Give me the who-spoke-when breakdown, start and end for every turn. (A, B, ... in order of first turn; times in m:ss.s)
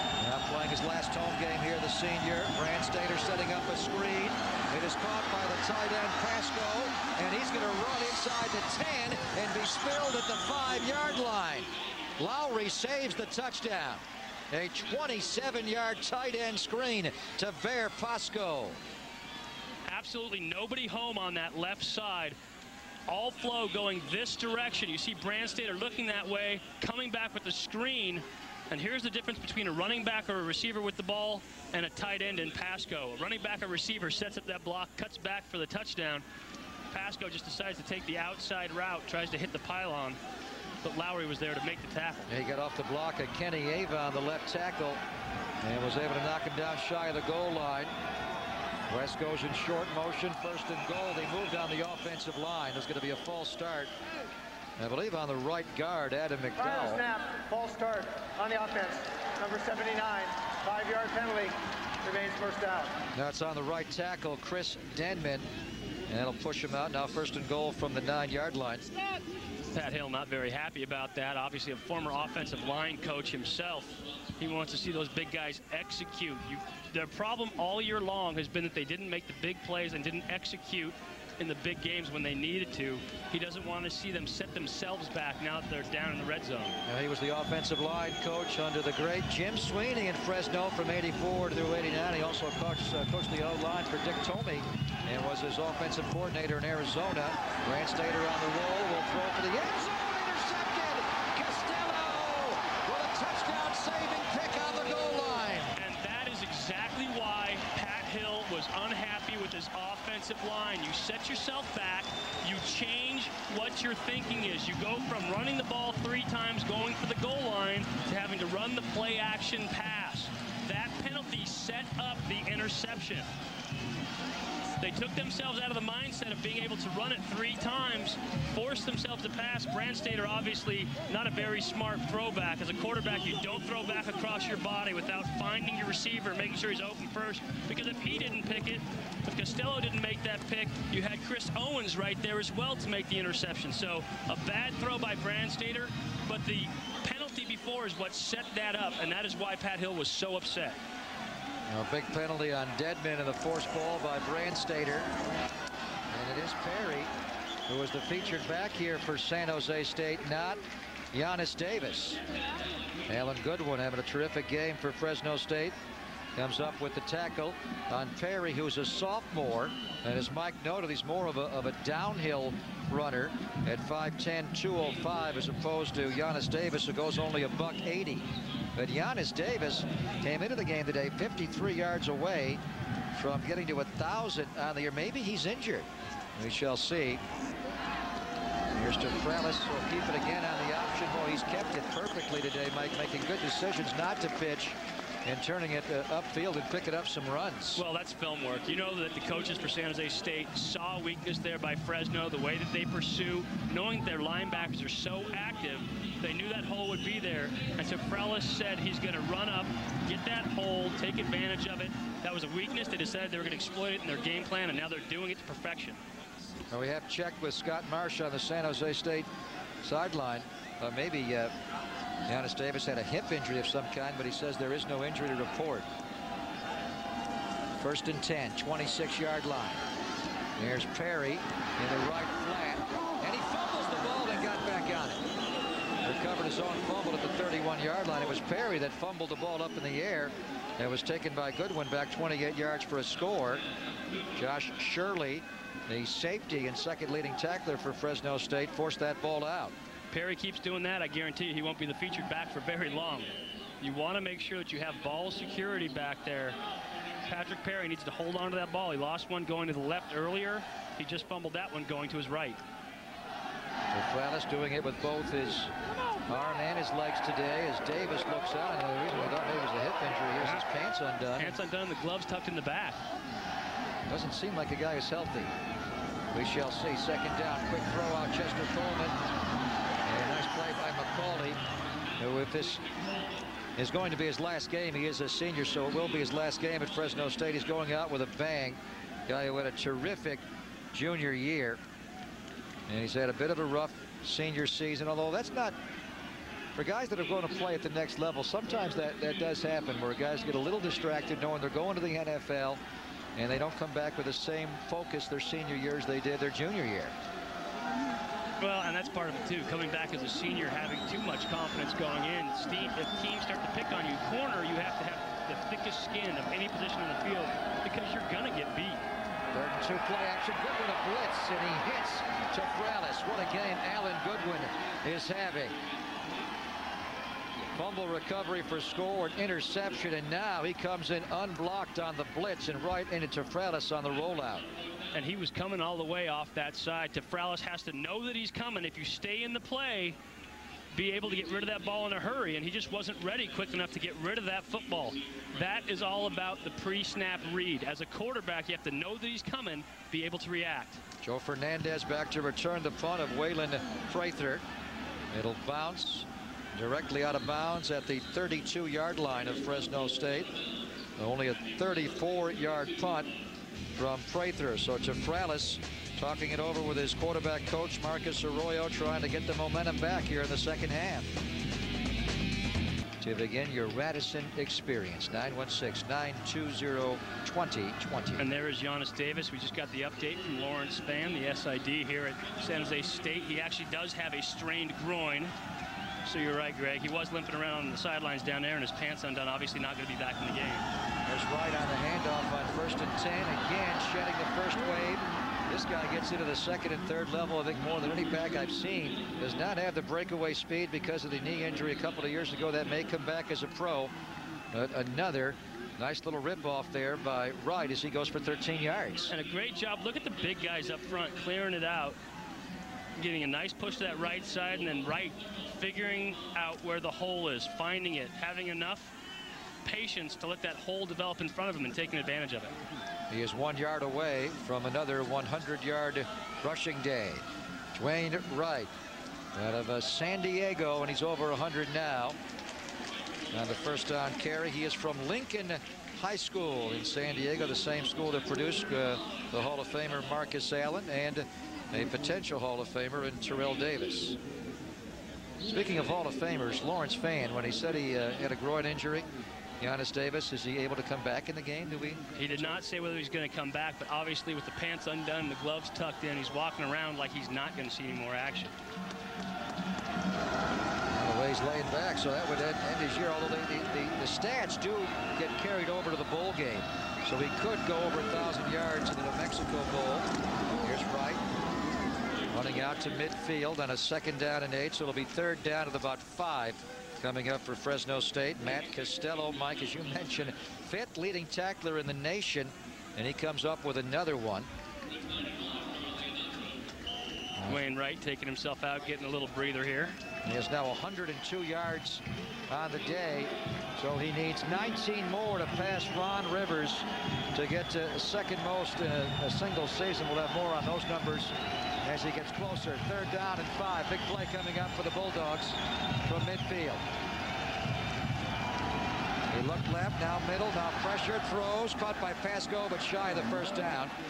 0:00.2-0:18.8 A
0:19.9-0:22.4 B
0:23.1-0:36.2 B
0:36.9-0:40.2 B
0:40.8-0:42.3 B
0:42.3-0:45.0 A
0:45.6-0:47.9 A
0:48.9-0:53.9 A
0:54.8-0:57.0 A
0:56.6-1:02.9 C
1:03.1-1:05.5 A
1:06.1-1:08.9 A
1:09.7-1:26.8 B
1:26.8-1:45.7 A
1:45.7-2:03.3 B
2:04.8-2:30.8 B
2:31.7-2:35.1 A
2:36.1-2:37.1 A
2:37.7-2:42.2 A
2:43.1-2:45.7 A
2:46.3-3:02.6 A
3:03.1-3:07.2 A
3:08.7-3:17.8 A
3:17.7-3:36.0 B
3:36.7-3:39.3 A
3:39.8-3:41.5 A
3:42.3-3:45.9 A
3:47.8-3:49.8 A
3:50.6-3:55.2 A
3:56.0-4:03.6 A
4:04.3-4:09.7 A
4:10.1-4:16.6 B
4:17.3-4:22.6 B
4:23.9-4:25.7 A
4:26.3-4:31.6 A
4:31.4-4:33.0 B
4:34.1-4:35.5 A
4:36.3-4:39.2 A
4:40.0-4:41.6 A
4:42.2-4:42.8 A
4:43.8-4:51.8 A
4:52.9-4:55.7 A
4:56.7-5:02.8 A
5:03.4-5:07.1 A
5:08.6-5:19.0 B
5:19.5-5:25.8 A
5:27.6-5:34.6 A
5:35.1-5:40.2 B
5:40.9-5:51.0 B
5:51.2-5:54.6 A
5:55.3-6:00.6 A
6:01.2-6:03.3 A
6:04.0-6:11.3 A
6:13.2-6:18.5 A
6:18.4-6:25.5 B
6:26.2-6:30.9 B
6:31.2-6:44.1 A
6:44.7-6:49.3 A
6:49.3-6:52.2 B
6:53.2-6:59.1 B
6:59.8-7:02.7 B
7:03.3-7:08.9 A
7:09.5-7:12.4 A
7:13.5-7:24.4 A
7:25.6-7:29.3 A
7:29.8-7:32.8 A
7:32.3-7:38.7 B
7:41.1-7:50.3 A
7:50.8-7:51.4 A
7:52.5-8:04.7 A
8:07.6-8:10.2 B
8:10.4-8:27.0 A
8:29.5-8:34.1 A